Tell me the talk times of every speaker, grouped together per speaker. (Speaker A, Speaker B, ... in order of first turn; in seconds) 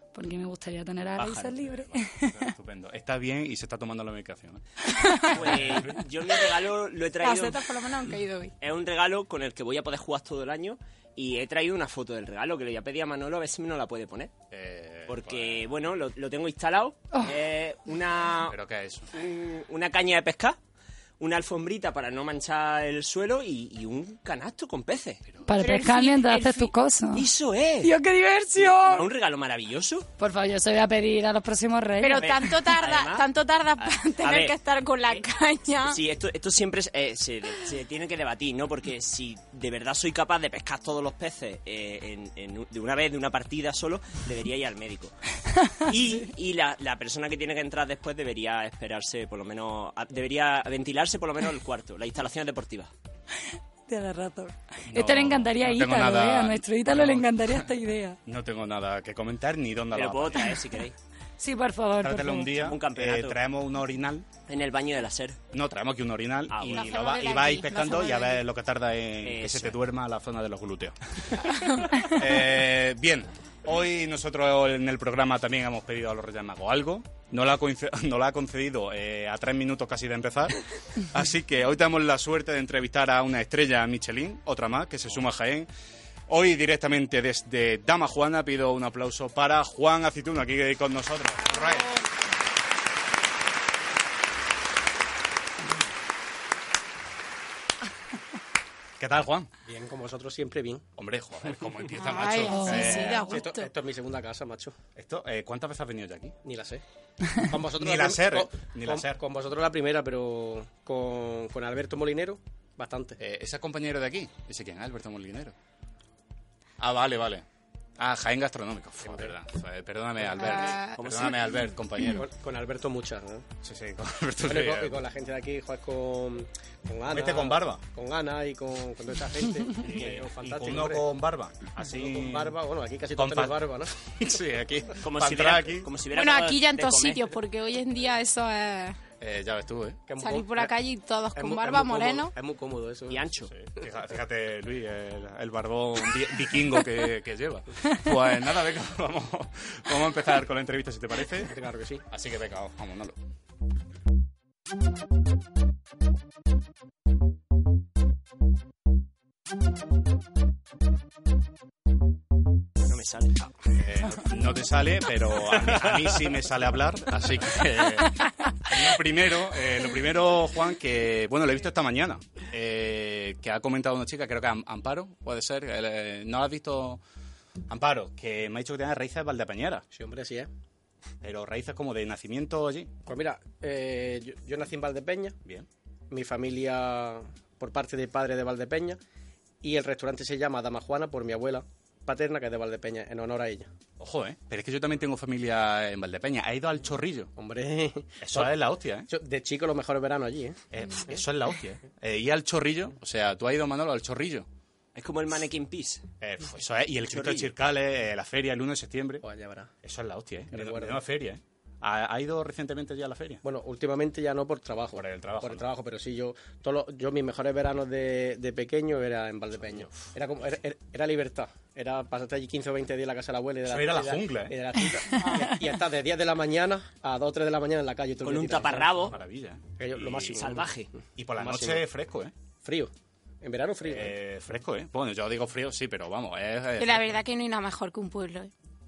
Speaker A: 0.1-2.5, 25.4-27.3, 27.8-29.1, 30.2-32.5, 53.9-58.2, 61.4-62.7, 102.5-103.2
Speaker B: 1.2-1.5, 5.3-7.7, 8.6-14.3, 15.1-18.6, 19.1-20.6, 21.2-25.2, 27.1-27.9, 28.6-30.1, 32.2-34.5, 35.9-45.1, 45.8-52.9, 59.9-60.9, 62.6-63.4, 64.5-65.4, 66.5-66.9, 69.2-69.8, 121.0-121.4, 135.0-137.2, 143.1-143.5, 162.8-163.3, 165.7-166.1, 204.9-206.1, 207.1-207.5, 228.2-229.2, 230.3-230.9
Speaker C: 1.6-4.6, 5.4-6.0, 14.5-15.7, 18.4-19.1, 25.3-25.6, 54.9-57.3, 58.2-60.6, 62.0-64.3, 65.5-71.4, 72.1-85.7, 86.3-91.9, 99.0-99.5, 101.0-103.5, 105.0-106.3, 107.8-109.2, 113.2-115.5, 116.8-117.5, 118.0-122.3, 123.6-125.0, 127.1-127.8, 129.7-132.6, 133.1-135.9, 139.2-140.0, 143.5-151.5, 152.1-153.2, 163.7-177.0, 177.7-179.8, 181.2-182.9, 194.0-197.3, 198.2-199.1, 200.7-204.5, 206.2-209.2, 209.8-213.4, 214.9-215.7, 219.5-220.1, 223.7-224.6, 228.9-230.4, 231.2-232.3, 233.8-237.2
Speaker D: 7.2-8.5, 25.6-26.7, 32.0-36.0, 66.7-68.4, 101.9-103.7, 120.4-120.9, 136.1-139.0, 140.2-142.3, 236.8-238.5
Speaker E: 99.6-100.8, 103.1-104.7, 106.4-106.8, 107.3-113.2, 119.0-119.3, 122.1-123.5, 124.4-131.1, 131.8-134.0, 140.1-140.7, 141.3-143.2, 151.4-152.0, 179.9-180.5, 183.1-185.4, 186.1-189.0, 189.6-193.7, 197.3-198.6, 199.1-200.6, 209.2-209.7, 210.5-211.0, 213.4-229.1, 229.8-230.7, 231.4-231.8, 232.6-232.9, 233.4-234.2